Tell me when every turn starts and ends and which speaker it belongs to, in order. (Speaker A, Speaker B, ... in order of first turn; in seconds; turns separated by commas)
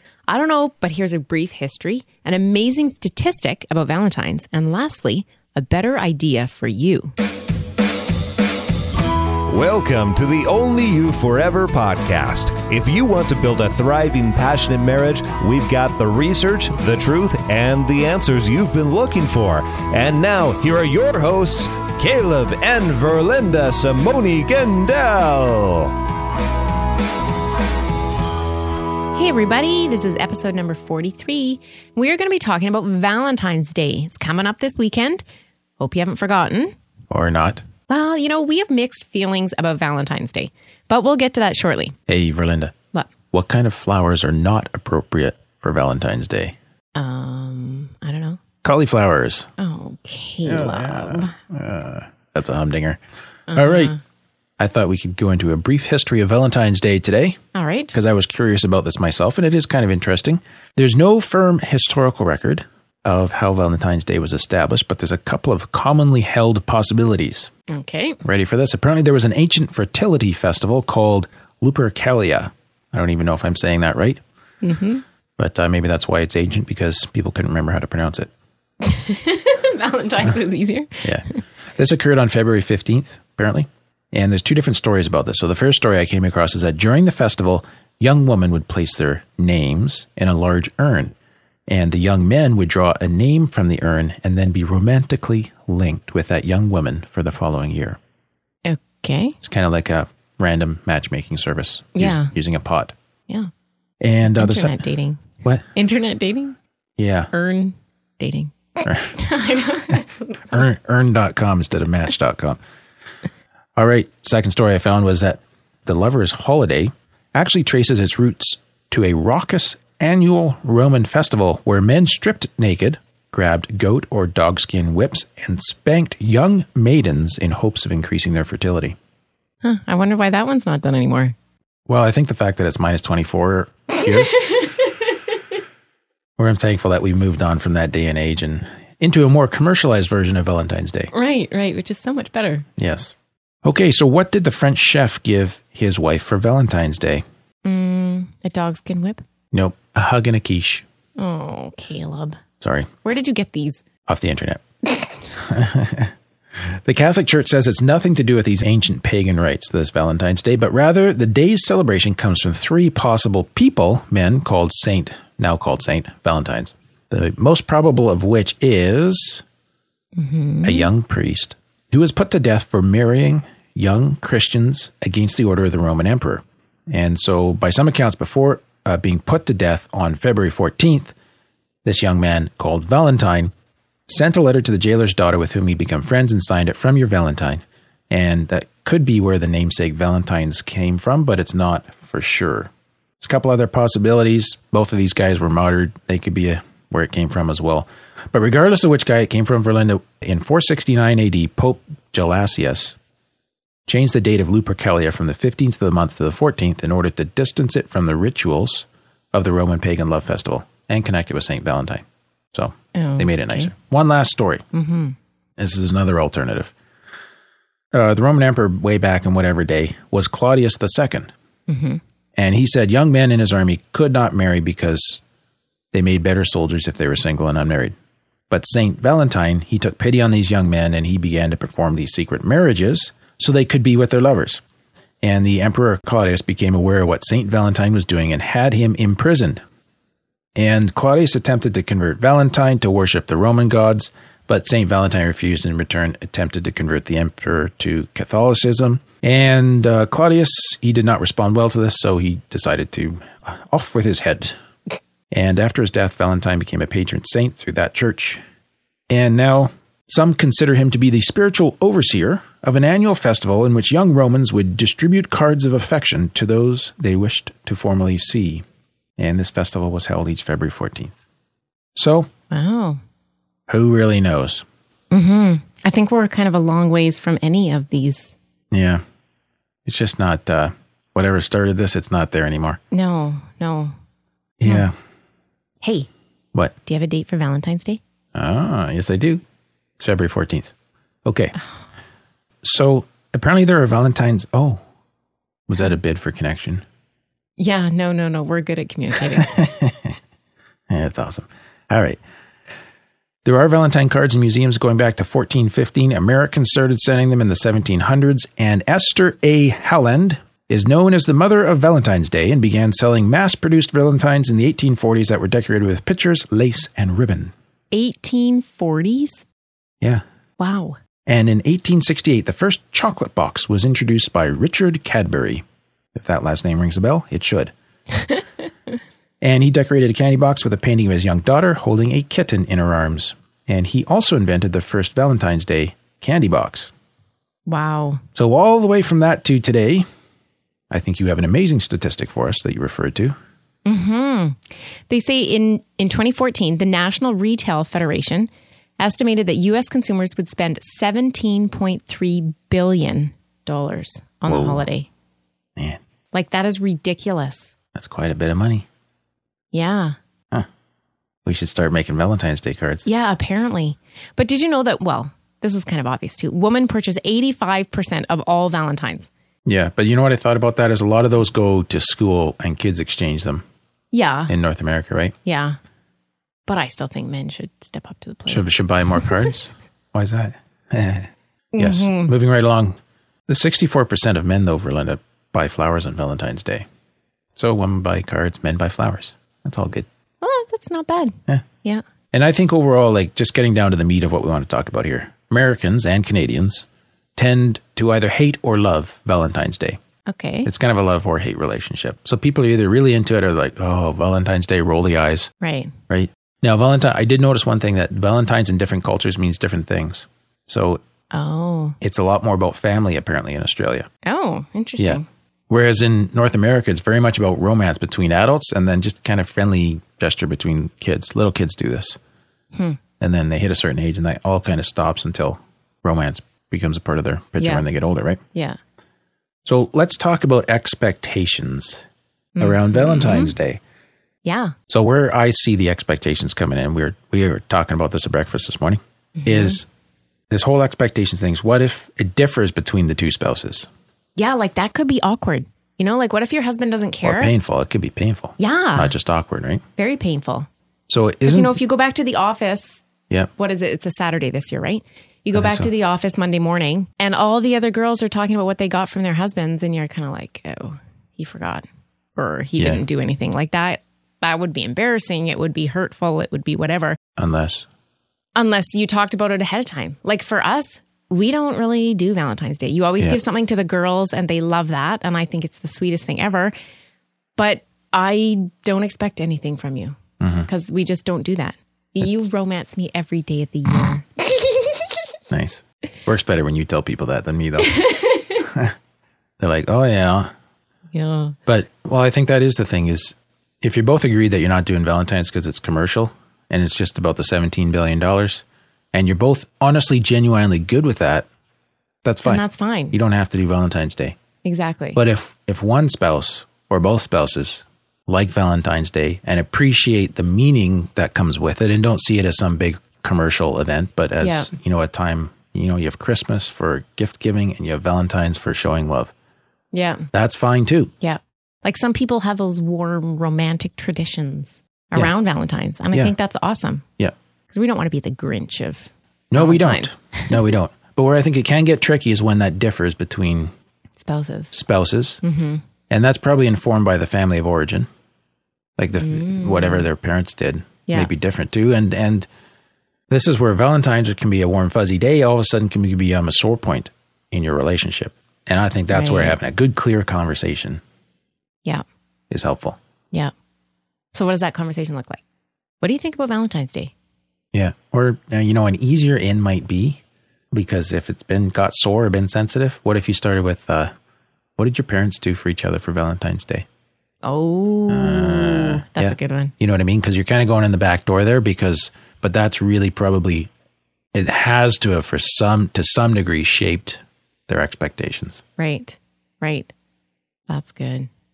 Speaker A: 0.3-7.1, Speaker B: 9.5-25.9, Speaker A: 29.1-35.2, Speaker A: 35.8-36.7, Speaker C: 37.1-37.6, Speaker A: 37.9-41.9, Speaker C: 42.1-42.7, Speaker C: 43.3-46.5, Speaker A: 47.0-48.4, Speaker C: 48.6-49.5, Speaker A: 49.6-51.3, Speaker C: 50.4-53.0, Speaker A: 53.5-54.0, Speaker C: 53.5-54.0, Speaker C: 54.6-57.4, Speaker A: 57.5-57.9, Speaker C: 57.9-67.5, Speaker A: 67.7-68.2, Speaker C: 68.2-74.2, Speaker A: 74.6-75.0, Speaker C: 75.4-78.3, Speaker A: 78.8-81.0, Speaker C: 81.8-91.1, Speaker C: 91.7-98.0, Speaker A: 98.6-99.3, Speaker C: 99.4-102.9, Speaker A: 102.0-102.3, Speaker C: 104.0-104.8, Speaker A: 104.3-105.2, Speaker A: 105.7-106.6, Speaker C: 107.0-107.3, Speaker A: 107.3-110.5, Speaker C: 108.8-109.1, Speaker C: 110.5-112.6, Speaker C: 113.8-128.9, Speaker A: 129.6-131.3, Speaker C: 131.9-134.3, Speaker A: 133.9-135.1, Speaker C: 136.4-141.1, Speaker A: 141.1-142.7, Speaker C: 142.8-147.2, Speaker A: 147.6-149.2, Speaker C: 149.5-150.8, Speaker A: 151.2-152.4, Speaker C: 152.6-152.9, Speaker A: 153.0-153.8, Speaker C: 154.1-154.6, Speaker C: 155.3-156.1, Speaker C: 156.8-169.4, Speaker A: 170.2-170.9, Speaker C: 170.6-181.1, Speaker C: 181.8-183.5, Speaker C: 184.1-203.0, Speaker C: 203.9-214.6, Speaker A: 212.9-213.7, Speaker A: 214.7-215.2, Speaker C: 215.6-216.7, Speaker C: 217.9-221.3, Speaker A: 221.7-222.0, Speaker C: 222.3-225.2, Speaker C: 225.9-227.9, Speaker C: 228.5-234.6, Speaker C: 235.2-239.6, Speaker C: 240.6-254.6, Speaker C: 255.3-258.4, Speaker C: 259.1-268.6, Speaker C: 269.2-271.1, Speaker C: 271.9-272.3, Speaker A: 272.5-273.0, Speaker C: 273.7-274.6, Speaker A: 275.1-278.4, Speaker C: 278.7-279.0, Speaker C: 279.9-282.8, Speaker A: 282.9-283.9, Speaker C: 284.6-284.9, Speaker A: 285.8-286.1, Speaker A: 286.8-288.0, Speaker C: 288.3-289.4, Speaker C: 290.0-290.7, Speaker C: 291.2-291.5, Speaker C: 292.6-294.8, Speaker C: 295.7-296.8, Speaker A: 297.6-299.5, Speaker C: 299.4-300.1, Speaker C: 300.9-302.2, Speaker C: 303.4-317.5, Speaker A: 317.9-319.4, Speaker A: 320.6-321.0, Speaker C: 321.2-325.6, Speaker C: 326.1-327.7, Speaker C: 329.4-336.9, Speaker A: 337.6-338.2, Speaker C: 338.3-340.1, Speaker C: 340.9-343.4, Speaker A: 343.9-348.5, Speaker A: 349.0-355.1, Speaker C: 354.5-354.9, Speaker A: 356.3-357.7, Speaker C: 357.9-358.9, Speaker A: 359.7-360.1, Speaker C: 361.4-363.1, Speaker A: 363.1-369.3, Speaker C: 369.6-373.6, Speaker A: 374.1-374.5, Speaker C: 374.5-375.3, Speaker A: 375.4-375.8, Speaker A: 376.7-378.7, Speaker C: 378.5-383.0, Speaker A: 381.7-382.3, Speaker C: 383.5-386.9, Speaker C: 387.6-390.1, Speaker A: 390.4-392.0, Speaker C: 392.3-400.0, Speaker A: 400.3-400.7, Speaker C: 400.6-405.5, Speaker A: 405.6-405.9, Speaker C: 406.1-411.0, Speaker A: 411.3-412.0, Speaker C: 412.0-414.1, Speaker A: 414.2-415.2, Speaker C: 415.0-422.2, Speaker C: 423.2-428.4, Speaker C: 429.6-432.1, Speaker A: 432.6-433.6, Speaker C: 432.6-433.8, Speaker A: 434.4-434.7, Speaker C: 434.9-439.8, Speaker A: 439.4-439.8, Speaker C: 440.5-443.9, Speaker A: 444.4-447.5, Speaker C: 447.2-449.8, Speaker A: 448.6-449.1, Speaker A: 450.0-450.7, Speaker C: 451.1-451.8, Speaker A: 451.4-453.0, Speaker A: 453.6-467.2, Speaker C: 455.5-455.9, Speaker C: 462.8-463.0, Speaker C: 467.4-467.9, Speaker A: 468.6-476.7, Speaker A: 477.6-480.1, Speaker C: 480.4-480.7, Speaker A: 480.7-485.0, Speaker C: 485.5-488.1, Speaker A: 487.9-488.6, Speaker C: 488.6-488.9, Speaker C: 489.6-490.5, Speaker A: 491.1-491.6, Speaker C: 491.7-501.5, Speaker C: 502.2-504.4, Speaker A: 502.4-503.2, Speaker A: 504.6-505.2, Speaker C: 505.1-519.3, Speaker A: 514.4-514.7, Speaker A: 519.9-520.3, Speaker C: 520.3-521.1, Speaker A: 521.2-527.0, Speaker A: 527.7-530.7, Speaker C: 529.5-533.7, Speaker A: 534.2-534.7, Speaker C: 534.7-535.4, Speaker A: 535.4-535.8, Speaker C: 536.1-538.1, Speaker C: 539.0-542.5, Speaker A: 539.2-540.1, Speaker C: 543.3-551.0, Speaker A: 549.1-549.6, Speaker C: 552.5-553.0, Speaker A: 554.3-555.4, Speaker A: 556.0-557.1, Speaker C: 557.7-560.2, Speaker C: 560.7-564.1, Speaker C: 564.8-566.9, Speaker A: 567.4-569.7, Speaker C: 568.1-573.7, Speaker C: 574.3-578.6, Speaker A: 578.8-579.9, Speaker A: 580.7-581.3